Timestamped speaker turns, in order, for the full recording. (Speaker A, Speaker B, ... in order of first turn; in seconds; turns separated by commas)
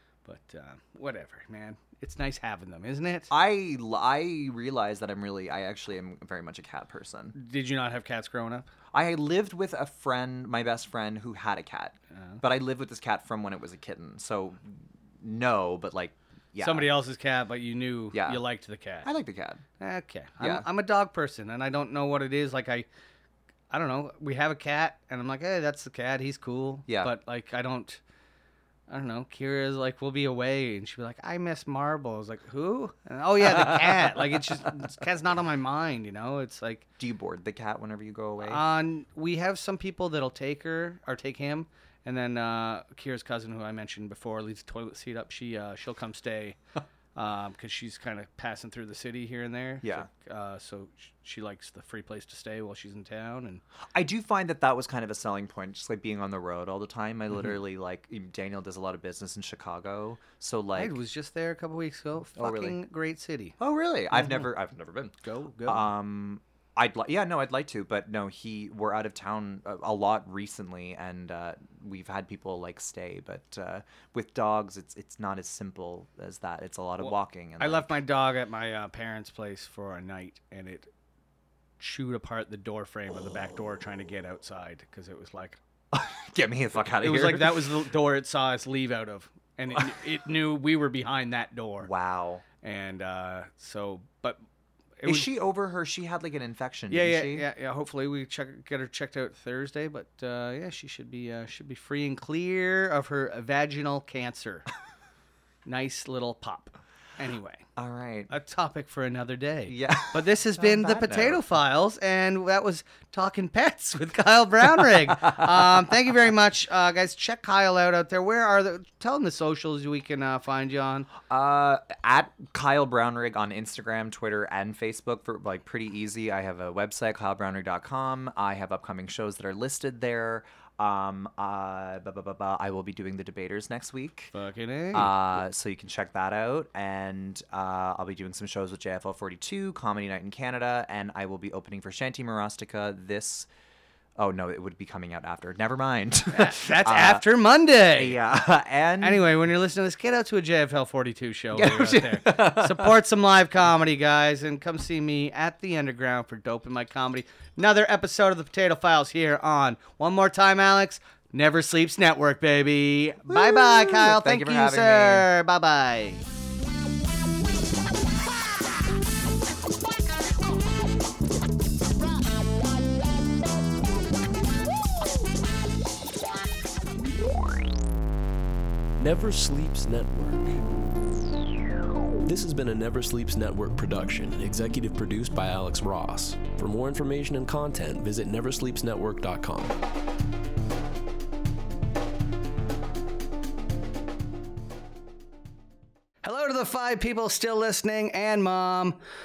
Speaker A: 0.2-3.3, Speaker B: 3.3-7.3, Speaker A: 7.3-8.7, Speaker B: 8.9-16.9, Speaker A: 12.2-12.4, Speaker A: 16.6-19.1, Speaker B: 18.1-18.4, Speaker B: 19.0-19.6, Speaker A: 19.8-22.9, Speaker B: 20.4-20.6, Speaker A: 23.7-28.0, Speaker B: 26.9-27.1, Speaker A: 28.9-36.8, Speaker B: 37.0-38.6, Speaker A: 38.4-46.6, Speaker A: 47.1-53.6, Speaker B: 49.8-50.1, Speaker B: 53.9-61.0, Speaker A: 60.8-63.5, Speaker B: 62.3-62.8, Speaker B: 63.6-65.1, Speaker A: 65.2-65.8, Speaker B: 65.7-78.0, Speaker A: 77.0-80.9, Speaker A: 81.8-85.6, Speaker B: 85.9-87.8, Speaker A: 87.0-91.9, Speaker B: 91.8-92.4, Speaker A: 92.6-94.4, Speaker A: 95.0-95.3, Speaker B: 95.0-97.5, Speaker A: 96.9-104.7, Speaker A: 105.6-107.6, Speaker B: 107.8-108.3, Speaker A: 108.3-121.1, Speaker B: 109.7-111.4, Speaker B: 121.3-134.3, Speaker A: 134.3-135.1, Speaker B: 134.9-143.5, Speaker B: 144.2-147.3, Speaker A: 146.3-148.2, Speaker B: 147.9-149.3, Speaker A: 149.0-166.2, Speaker B: 151.5-153.0, Speaker B: 163.3-165.3, Speaker C: 179.0-180.6, Speaker C: 182.2-189.8, Speaker A: 196.2-199.0